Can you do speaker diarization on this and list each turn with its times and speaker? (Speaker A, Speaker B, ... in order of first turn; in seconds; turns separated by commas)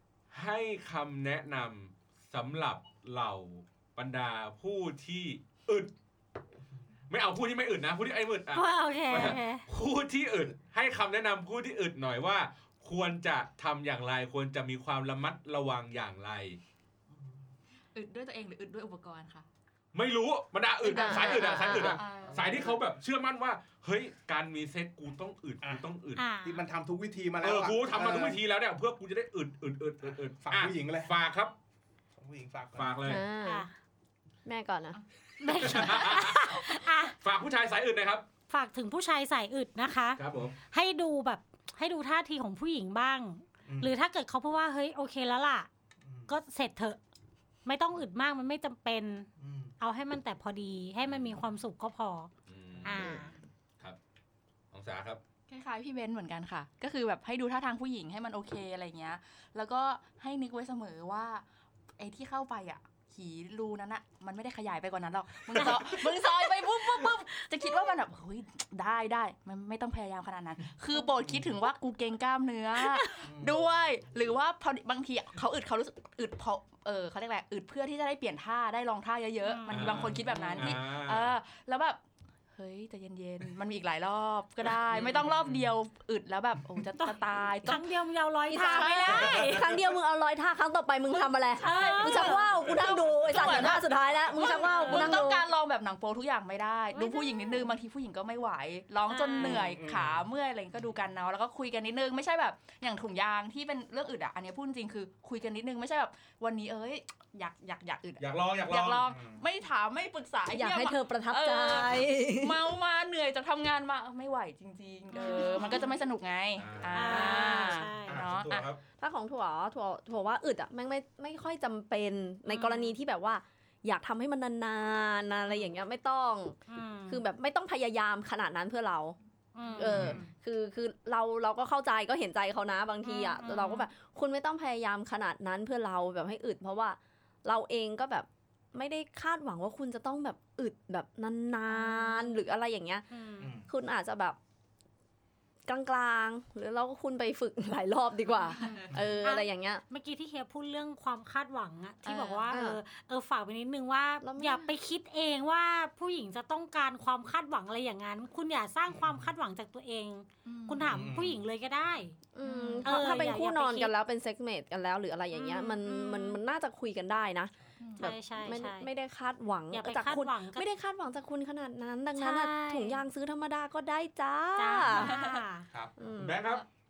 Speaker A: 0.3-5.9, Speaker A: 7.1-16.6, Speaker B: 8.5-9.6, Speaker C: 17.9-19.4, Speaker A: 19.9-26.2, Speaker C: 20.8-22.7, Speaker D: 20.9-22.0, Speaker E: 22.0-22.8, Speaker B: 26.1-26.6, Speaker E: 26.4-28.4, Speaker A: 27.4-31.5, Speaker E: 30.0-31.1, Speaker E: 32.2-33.1, Speaker A: 32.8-33.2, Speaker D: 33.0-33.6, Speaker B: 33.4-33.7, Speaker D: 34.4-35.0, Speaker B: 35.4-37.1, Speaker C: 35.5-36.1, Speaker A: 35.6-36.6, Speaker A: 37.2-38.2, Speaker B: 38.5-45.7, Speaker A: 40.2-40.5, Speaker E: 43.7-43.9, Speaker E: 46.0-46.3, Speaker B: 46.3-47.0, Speaker B: 47.6-49.3, Speaker E: 49.4-49.7, Speaker B: 49.8-52.3, Speaker A: 52.5-53.1, Speaker E: 52.7-53.0, Speaker B: 52.8-53.3, Speaker A: 54.7-55.2, Speaker C: 55.5-61.4, Speaker C: 62.0-82.0, Speaker B: 66.8-67.1, Speaker E: 71.2-71.6, Speaker B: 72.8-73.2, Speaker E: 73.2-73.6, Speaker B: 79.4-80.7, Speaker A: 79.7-81.3, Speaker C: 82.5-87.9, Speaker A: 84.9-85.7, Speaker B: 87.0-89.5, Speaker D: 88.5-95.5, Speaker C: 88.6-89.8, Speaker C: 91.6-118.7, Speaker B: 91.6-92.7, Speaker B: 94.3-95.3, Speaker B: 96.9-97.7, Speaker B: 99.1-99.8, Speaker E: 99.4-100.3, Speaker A: 108.2-109.0, Speaker E: 109.0-109.4, Speaker D: 110.5-112.7, Speaker B: 115.1-115.9, Speaker D: 115.2-115.8, Speaker A: 116.6-117.5, Speaker B: 116.9-118.2, Speaker A: 118.0-118.8, Speaker D: 119.0-129.2, Speaker B: 122.5-123.0, Speaker B: 126.7-127.2, Speaker B: 129.5-130.2, Speaker C: 129.6-130.3, Speaker D: 129.8-143.0, Speaker E: 129.9-130.2, Speaker B: 133.0-133.9, Speaker B: 141.7-142.3, Speaker B: 143.1-143.5, Speaker E: 143.4-143.7, Speaker D: 143.7-144.4, Speaker D: 145.7-149.8, Speaker C: 148.6-148.9, Speaker E: 148.9-149.2, Speaker B: 149.2-162.2, Speaker C: 152.0-152.5, Speaker D: 152.5-152.8, Speaker D: 154.2-154.7, Speaker E: 158.9-159.2, Speaker C: 160.4-161.1, Speaker E: 160.8-161.4, Speaker D: 162.3-175.2, Speaker C: 162.4-163.0, Speaker B: 162.8-163.9, Speaker B: 165.3-166.4, Speaker C: 167.8-168.1, Speaker B: 168.0-168.9, Speaker B: 169.7-170.7, Speaker B: 172.2-173.0, Speaker B: 174.6-175.7, Speaker C: 174.9-175.4, Speaker D: 176.0-176.4, Speaker A: 176.2-176.6